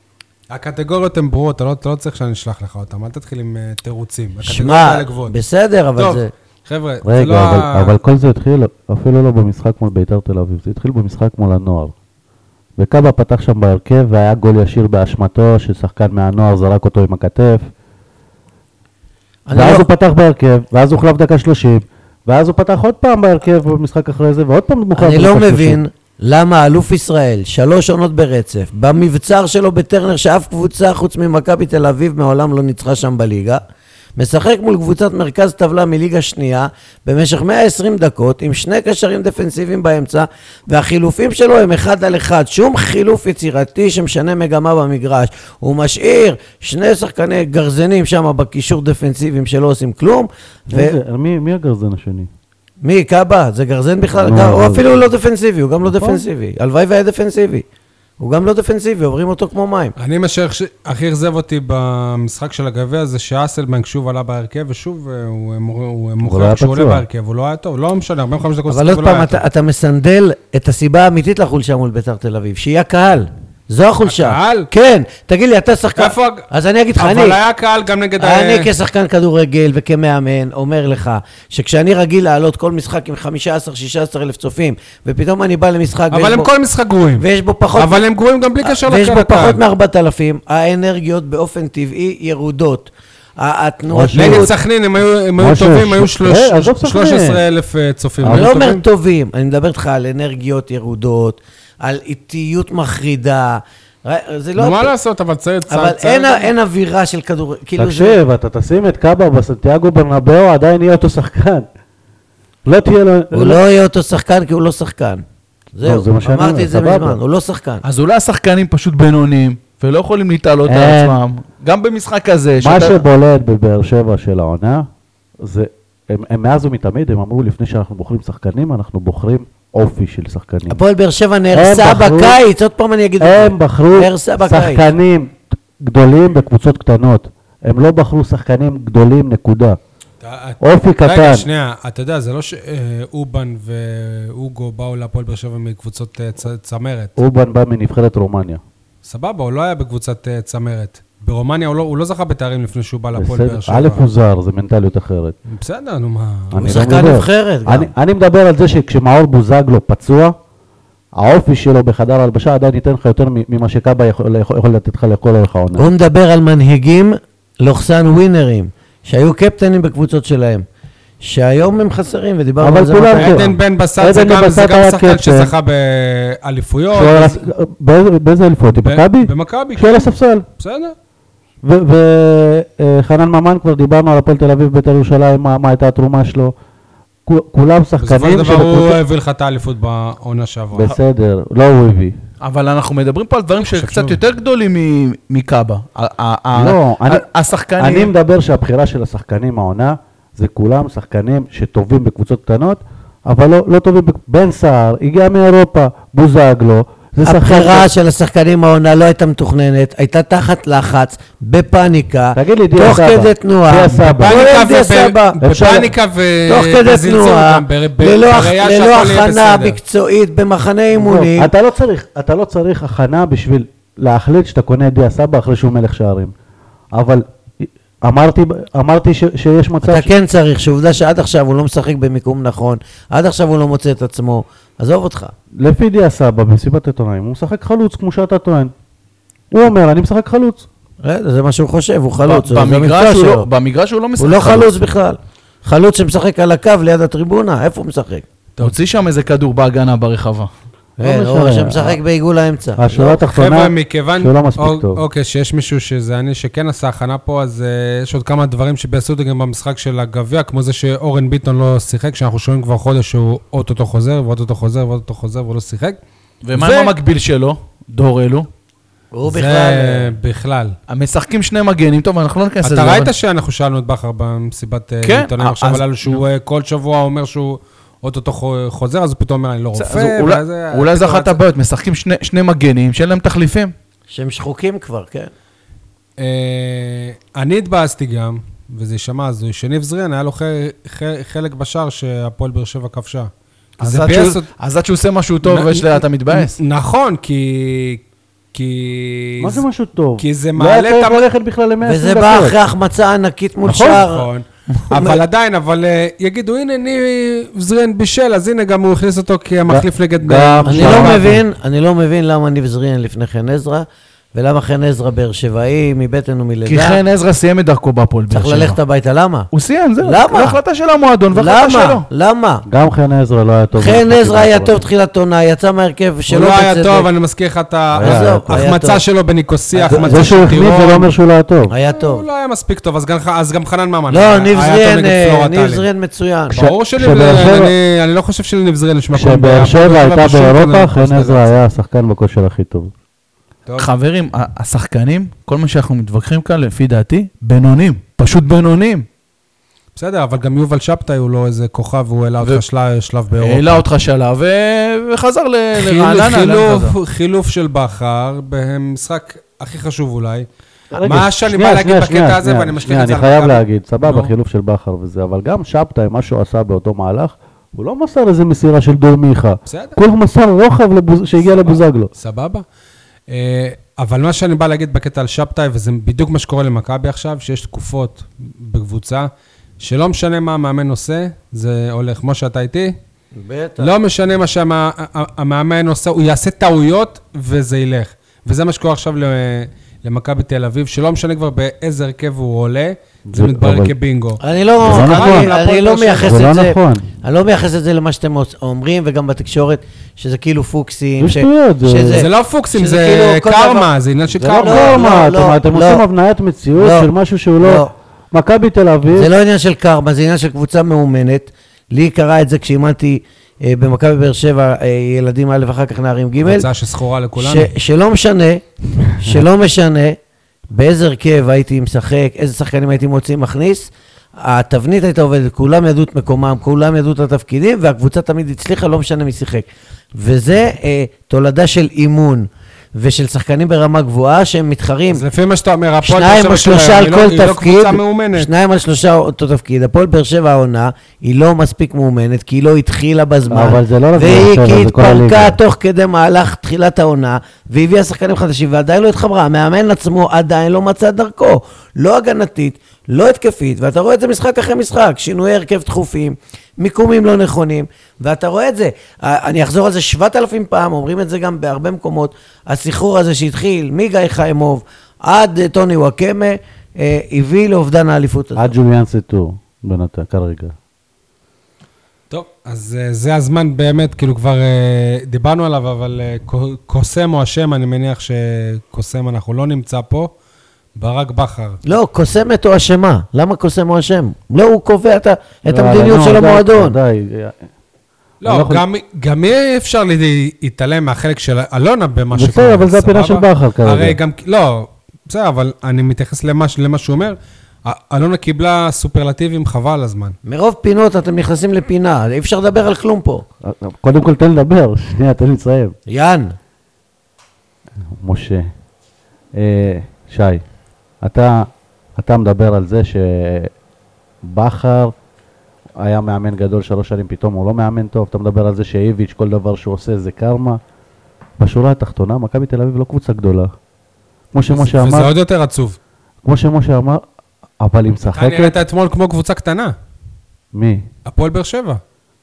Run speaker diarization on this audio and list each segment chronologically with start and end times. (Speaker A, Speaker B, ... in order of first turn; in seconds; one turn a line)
Speaker A: 0.5-5.3
Speaker B: 4.4-6.3
Speaker A: 6.0-8.0
Speaker C: 7.0-11.9
Speaker C: 12.8-17.6
Speaker B: 19.5-19.9
Speaker C: 19.5-25.8
Speaker B: 24.9-33.6
Speaker B: 34.1-51.0
Speaker C: 50.7-52.3
Speaker B: 52.8-57.6
Speaker C: 54.1-55.0
Speaker C: 55.9-56.2
Speaker B: 58.2-59.9
Speaker A: 60.0-69.4
Speaker C: 66.2-67.0
Speaker B: 68.7-77.4
Speaker A: 74.0-74.7
Speaker A: 76.0-78.7
Speaker B: 78.2-86.5
Speaker A: 86.1-89.6
Speaker B: 87.2-88.0
Speaker B: 88.6-94.5
Speaker C: 93.9-94.5
Speaker A: 94.1-98.8
Speaker C: 95.4-97.4
Speaker C: 98.2-98.5
Speaker B: 98.3-104.9
Speaker A: 104.6-106.5
Speaker B: 105.7-108.2
Speaker C: 107.8-111.7
Speaker C: 112.7-113.6
Speaker B: 113.3-115.2
Speaker B: 115.7-117.8
Speaker C: 115.8-117.2
Speaker D: 117.8-123.0
Speaker C: 120.7-121.2
Speaker C: 122.6-124.9
Speaker C: 125.4-130.8
Speaker B: 130.7-134.9
Speaker C: 131.5-132.4
Speaker C: 133.2-139.8
Speaker A: 140.2-147.2
Speaker C: 140.6-141.5
Speaker C: 147.2-148.6
Speaker A: 149.0-154.0
Speaker C: 153.1-155.3
Speaker A: 155.5-157.0
Speaker C: 156.5-160.3
Speaker B: 156.6-157.9
Speaker C: 161.2-165.9
Speaker B: 165.8-170.6
Speaker B: 171.2-173.5
Speaker C: 172.6-175.5
Speaker A: 173.1-177.4
Speaker C: 176.9-180.4
Speaker A: 178.7-180.9
Speaker C: 181.6-186.5
Speaker C: 187.3-189.0
Speaker A: 188.0-190.9
Speaker C: 190.7-192.2
Speaker D: 192.4-198.1
Speaker A: 193.6-194.2
Speaker C: 196.5-197.2
Speaker C: 197.8-207.9
Speaker B: 207.2-215.4
Speaker C: 212.3-214.4
Speaker A: 214.1-219.8
Speaker C: 215.4-215.9
Speaker B: 216.4-221.5
Speaker C: 220.9-226.3
Speaker C: 226.9-230.1
Speaker B: 229.8-235.3
Speaker C: 235.6-238.7
Speaker C: 239.5-240.7
Speaker B: 241.0-243.5
Speaker D: 242.2-244.8
Speaker B: 244.2-248.2
Speaker D: 248.6-250.5
Speaker C: 251.0-252.0
Speaker B: 251.0-253.2
Speaker C: 252.8-255.0
Speaker A: 253.2-266.0
Speaker D: 266.4-268.5
Speaker A: 266.5-266.9
Speaker B: 269.1-270.1
Speaker A: 269.3-270.7
Speaker D: 270.9-273.1
Speaker A: 272.6-281.4
Speaker D: 275.0-276.2
Speaker D: 279.7-283.7
Speaker B: 284.1-285.3
Speaker A: 286.2-294.5
Speaker D: 293.8-296.6
Speaker A: 295.4-298.0
Speaker A: 298.5-299.6
Speaker C: 299.4-302.6
Speaker A: 300.2-301.2
Speaker B: 301.8-304.3
Speaker A: 303.7-311.3
Speaker B: 304.9-305.2
Speaker C: 309.7-311.4
Speaker B: 310.6-317.0
Speaker D: 316.6-318.8
Speaker B: 318.3-319.5
Speaker D: 319.5-322.1
Speaker B: 320.0-320.6
Speaker B: 321.3-322.6
Speaker C: 322.7-324.8
Speaker B: 323.7-327.1
Speaker A: 326.3-331.1
Speaker C: 327.9-328.6
Speaker B: 328.0-329.0
Speaker B: 329.7-330.4
Speaker C: 329.9-331.7
Speaker B: 331.7-332.2
Speaker A: 331.9-335.9
Speaker B: 334.1-336.6
Speaker A: 336.5-341.5
Speaker C: 336.6-337.7
Speaker C: 339.1-342.9
Speaker D: 343.8-349.1
Speaker A: 349.9-353.8
Speaker D: 353.4-356.9
Speaker A: 355.7-360.5
Speaker C: 360.9-372.1
Speaker A: 361.0-364.3
Speaker A: 369.7-370.0
Speaker A: 371.4-372.6
Speaker A: 373.3-379.3
Speaker A: 379.8-382.9
Speaker B: 383.4-383.9
Speaker A: 383.8-396.4
Speaker C: 393.3-393.9
Speaker B: 394.4-403.9
Speaker C: 394.8-395.5
Speaker C: 396.2-397.0
Speaker C: 401.2-402.3
Speaker A: 402.1-405.1
Speaker C: 404.4-409.3
Speaker B: 404.6-406.0
Speaker B: 406.8-407.9
Speaker B: 409.1-416.7
Speaker A: 416.4-417.7
Speaker B: 417.4-420.2
Speaker B: 420.7-435.2
Speaker A: 435.1-438.5
Speaker B: 436.0-468.7
Speaker C: 443.5-445.6
Speaker C: 468.6-470.7
Speaker A: 472.3-480.3
Speaker A: 480.9-481.8
Speaker B: 481.9-487.0
Speaker C: 485.6-487.6
Speaker A: 488.4-500.4
Speaker C: 488.4-488.8
Speaker C: 492.3-494.2
Speaker B: 500.4-503.4
Speaker C: 503.6-505.9
Speaker B: 506.1-506.5
Speaker C: 508.1-508.7
Speaker C: 509.6-510.6
Speaker C: 511.2-513.7
Speaker C: 514.4-515.1
Speaker C: 516.0-520.8
Speaker C: 521.6-523.7
Speaker C: 524.5-525.3
Speaker A: 524.7-526.0
Speaker C: 526.4-527.2
Speaker C: 527.8-528.8
Speaker A: 528.3-529.9
Speaker C: 530.7-531.0
Speaker A: 531.2-532.0